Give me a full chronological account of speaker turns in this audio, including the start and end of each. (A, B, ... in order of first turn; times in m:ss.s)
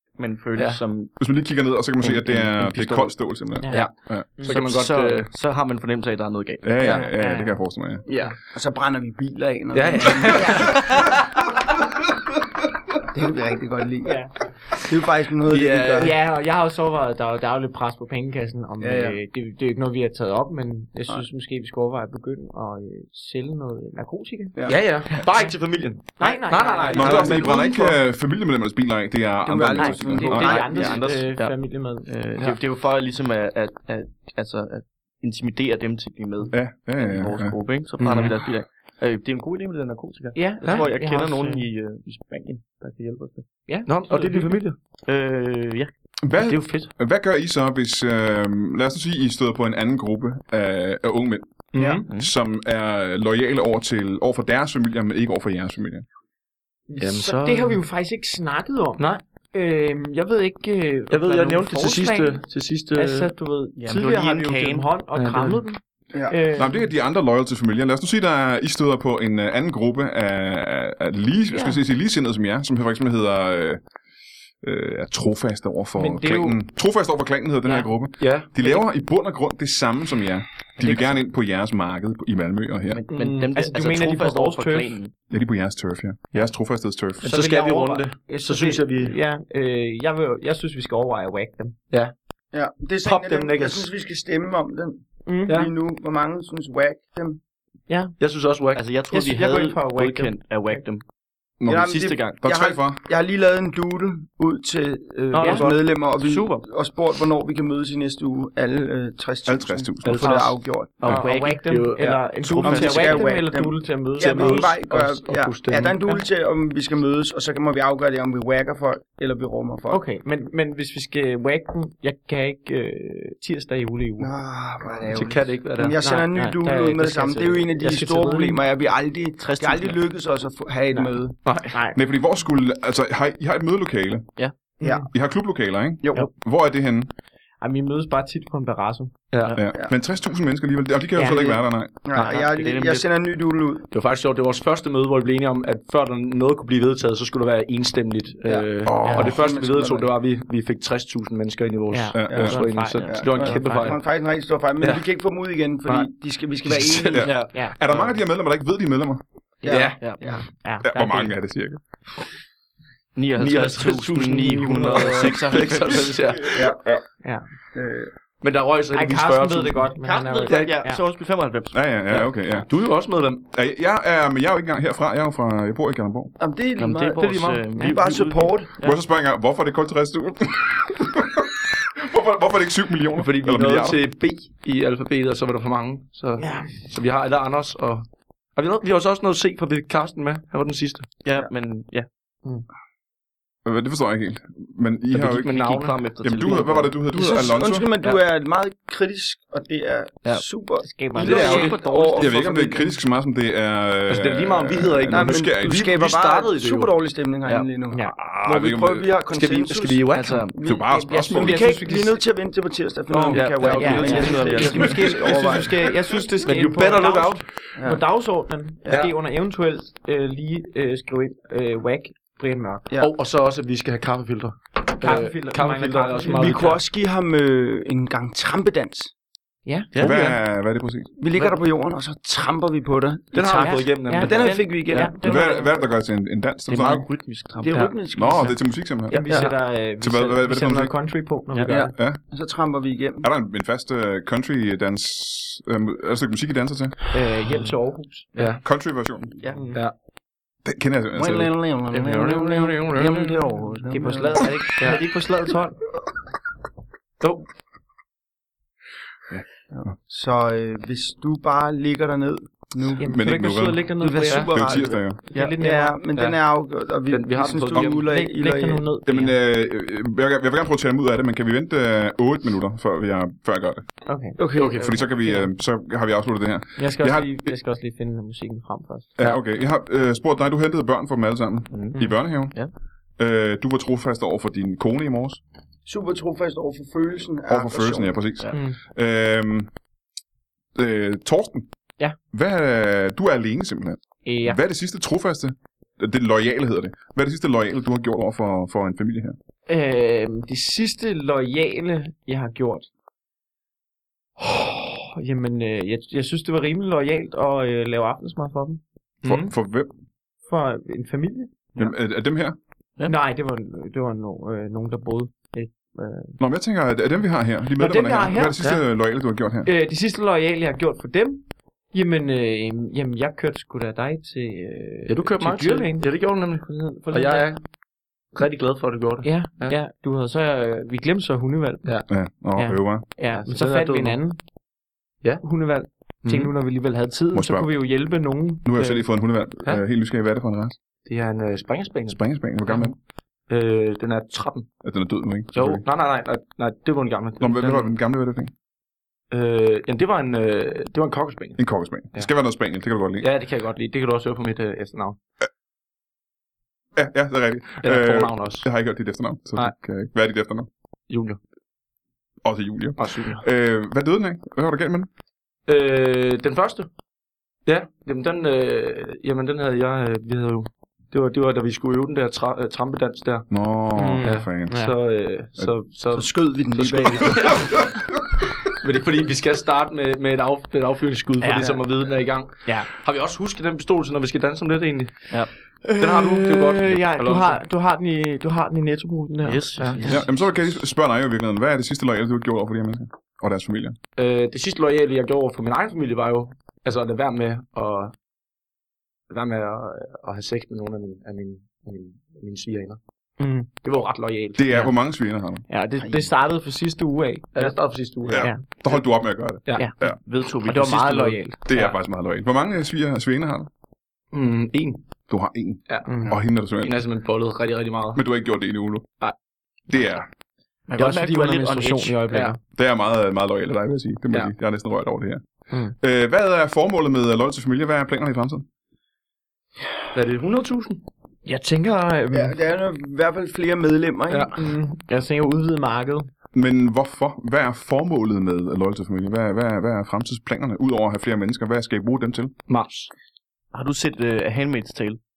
0:00.2-0:01.2 A
0:01.2-0:04.2 B
0:02.0-0:03.1 A
0:03.6-0:04.6 C
0:03.7-0:07.1 A
0:04.4-0:05.3 D
0:06.6-0:08.0 B
0:06.8-0:07.6 C
0:08.1-0:11.0 E
0:09.7-0:11.2 D
0:13.1-0:14.2 E
0:14.0-0:14.3 C
0:14.8-0:16.1 E
0:15.5-0:16.1 D
0:16.0-0:24.6 C
0:18.8-0:19.2 E
0:24.5-0:24.8 E
0:24.6-0:28.0 D
0:25.2-0:25.5 C
0:26.2-0:27.6 C
0:26.9-0:30.6 B
0:29.4-0:31.1 E
0:29.7-0:32.1 C
0:30.2-0:43.5 A
0:36.5-0:37.6 B
0:38.0-0:38.4 D
0:40.3-0:41.7 C
0:40.6-0:40.9 D
0:43.7-0:44.6 C
0:43.8-0:44.8 D
0:45.0-0:45.9 A
0:46.2-0:51.5 B
0:46.4-0:46.8 A
0:51.7-0:52.1 D
0:51.8-0:52.0 E
0:52.2-0:56.0 B
0:56.9-1:06.9 C
0:57.0-0:57.5 D
0:57.0-0:57.7 A
1:01.1-1:03.3 D
1:03.8-1:04.9 A
1:05.1-1:05.6 D
1:06.5-1:13.8 B
1:11.5-1:11.8 C
1:14.6-1:23.0 B
1:16.0-1:16.6 C
1:17.6-1:17.9 C
1:18.2-1:18.8 D
1:22.9-1:25.1 A
1:23.1-1:25.0 C
1:25.3-1:27.3 B
1:27.2-1:29.1 D
1:27.2-1:31.8 C
1:32.5-1:37.4 E
1:33.0-1:33.9 D
1:35.2-1:35.7 C
1:37.9-1:38.2 C
1:38.2-1:38.8 D
1:38.7-1:41.0 A
1:39.1-1:40.8 C
1:41.6-1:43.0 B
1:41.6-1:51.2 E
1:41.8-1:42.4 A
1:45.3-1:45.8 D
1:45.4-1:46.5 C
1:49.4-1:50.3 B
1:50.0-1:53.1 D
1:51.0-1:54.7 C
1:52.0-2:00.0 E
1:52.4-1:53.2 A
1:54.2-1:56.0 D
1:59.9-2:04.3 C
2:04.2-2:11.4 E
2:05.1-2:06.0 D
2:06.0-2:07.9 C
2:07.8-2:08.5 D
2:09.4-2:10.0 A
2:11.4-2:11.8 D
2:11.7-2:12.0 C
2:11.9-2:14.3 B
2:14.8-2:15.1 C
2:14.8-2:15.1 E
2:15.1-2:17.1 B
2:16.0-2:16.3 E
2:17.6-2:19.2 C
2:19.3-2:19.6 D
2:19.5-2:21.9 B
2:21.1-2:21.6 C
2:22.0-2:23.9 E
2:22.1-2:22.5 D
2:22.4-2:23.0 A
2:23.9-2:34.0 D
2:28.4-2:30.1 E
2:28.8-2:29.3 B
2:29.0-2:29.3 C
2:31.9-2:34.0 C
2:32.1-2:32.6 B
2:32.3-2:37.3 E
2:36.7-2:37.2 D
2:37.1-2:39.2 B
2:37.2-2:37.5 A
2:37.8-2:38.1 D
2:39.6-2:40.4 E
2:39.6-2:40.0 D
2:40.2-2:41.4 C
2:40.8-2:41.8 B
2:43.1-2:46.3 A
2:43.4-2:46.7 D
2:44.7-2:45.3 C
2:46.5-2:46.8 E
2:47.7-2:48.1 E
2:48.4-2:50.8 D
2:48.9-2:51.0 C
2:50.0-2:52.2 A
2:51.7-2:52.7 B
2:52.1-2:53.4 D
2:53.5-2:56.3 B
2:56.4-2:58.7 E
2:56.8-2:59.0 A
2:57.2-2:57.6 D
2:58.8-3:04.0 B
3:03.2-3:11.1 D
3:06.4-3:06.9 C
3:11.2-3:12.1 A
3:13.6-3:15.6 B
3:15.2-3:17.0 A
3:15.3-3:16.7 D
3:16.2-3:17.9 B
3:17.1-3:22.3 E
3:20.8-3:21.6 C
3:21.2-3:21.8 D
3:21.2-3:22.8 A
3:22.2-3:25.8 B
3:24.1-3:26.9 D
3:25.0-3:35.9 E
3:27.9-3:28.2 C
3:28.1-3:29.1 B
3:29.3-3:30.4 D
3:30.1-3:30.6 A
3:30.6-3:32.0 B
3:30.9-3:32.1 C
3:33.1-3:33.4 B
3:33.3-3:35.0 D
3:33.3-3:35.0 A
3:33.6-3:42.9 C
3:34.7-3:36.2 B
3:36.4-3:37.4 D
3:37.8-3:38.0 E
3:38.9-3:39.1 D
3:43.0-3:46.8 D
3:45.0-3:46.8 C
3:46.3-3:49.1 E
3:49.6-3:49.9 C
3:49.9-3:50.4 A
3:50.0-3:51.1 B
3:51.2-3:55.7 E
3:53.3-3:54.6 D
3:53.4-3:55.8 C
3:55.2-3:57.1 B
3:56.7-3:57.8 A
3:57.6-3:58.6 E
3:58.1-4:00.9 B
3:59.1-4:01.9 C
3:59.2-3:59.5 D
4:01.7-4:03.2 E
4:01.9-4:02.2 B
4:03.2-4:07.0 B
4:07.1-4:08.3 C
4:08.4-4:08.6 D
4:08.6-4:09.3 B
4:09.3-4:09.6 E
4:09.5-4:09.8 C
4:10.6-4:11.6 B
4:11.1-4:14.6 E
4:11.9-4:13.6 D
4:13.9-4:15.8 C
4:14.8-4:15.0 D
4:19.7-4:23.1 E
4:23.0-4:24.7 C
4:23.0-4:23.9 B
4:24.0-4:28.8 E
4:24.5-4:25.2 B
4:25.3-4:26.0 C
4:27.1-4:28.0 D
4:27.9-4:29.3 C
4:29.0-4:33.8 B
4:34.0-4:35.5 C
4:34.4-4:34.8 E
4:34.6-4:34.9 D
4:34.7-4:37.5 B
4:36.8-4:39.1 C
4:39.2-4:42.6 B
4:41.7-4:42.7 A
4:43.2-4:45.4 B
4:45.8-4:48.2 E
4:47.5-4:49.7 B
4:50.7-4:51.7 B
4:52.3-4:59.4 B
4:54.2-4:54.6 C
4:59.7-5:02.9 C
5:04.4-5:08.8 C
5:09.2-5:09.5 D
5:09.2-5:09.9 B
5:10.5-5:11.9 C
5:11.8-5:12.6 B
5:13.0-5:16.4 C
5:16.4-5:19.7 B
5:17.8-5:18.7 C
5:19.6-5:27.5 C
5:25.1-5:27.6 D
5:28.3-5:29.8 D
5:29.2-5:32.0 C
5:32.1-5:33.0 B
5:32.6-5:34.4 C
5:33.3-5:34.2 D
5:35.4-5:38.6 C
5:36.2-5:36.5 D
5:37.3-5:37.7 B
5:38.6-5:40.8 B
5:38.8-5:39.0 D
5:41.0-5:42.9 D
5:42.1-5:43.0 B
5:43.5-5:44.7 D
5:44.8-5:45.8 B
5:45.5-5:47.9 D
5:47.4-5:48.5 B
5:49.3-5:51.6 D
5:51.6-5:53.3 B
5:53.2-5:55.2 D
5:57.0-6:00.7 B
5:57.8-5:58.7 D
6:01.1-6:01.4 D
6:02.4-6:05.1 B
6:03.0-6:03.4 D
6:05.6-6:06.9 D
6:07.6-6:13.5 D
6:13.5-6:14.7 B
6:13.9-6:15.0 C
6:14.2-6:17.8 D
6:16.1-6:17.7 E
6:18.7-6:25.3 D
6:21.4-6:22.9 C
6:25.8-6:30.1 C
6:25.9-6:27.6 D
6:29.4-6:30.7 A
6:29.8-6:30.1 D
6:30.0-6:34.0 B
6:34.2-6:38.1 D
6:39.3-6:43.0 D
6:43.4-6:43.7 C
6:43.8-6:44.9 D
6:44.6-6:45.6 B
6:45.7-6:47.8 C
6:46.0-6:46.3 E
6:47.5-6:49.0 D
6:48.3-6:50.2 B
6:48.3-6:48.6 C
6:49.6-6:49.9 D
6:50.0-6:51.4 A
6:50.6-6:51.6 C
6:51.6-6:53.7 B
6:51.7-6:52.0 D
6:54.3-6:55.0 D
6:55.3-6:57.1 B
6:55.9-6:58.2 D
6:56.0-6:56.4 C
6:58.1-6:59.1 B
6:59.9-7:00.3 B
7:00.9-7:02.2 A
7:01.0-7:02.6 C
7:02.3-7:02.6 D
7:02.7-7:05.4 B
7:06.0-7:08.6 B
7:10.1-7:11.0 D
7:11.4-7:12.6 C
7:12.3-7:14.7 E
7:14.3-7:14.5 D
7:14.5-7:16.3 C
7:16.5-7:22.5 B
7:22.7-7:23.1 D
7:23.7-7:25.2 A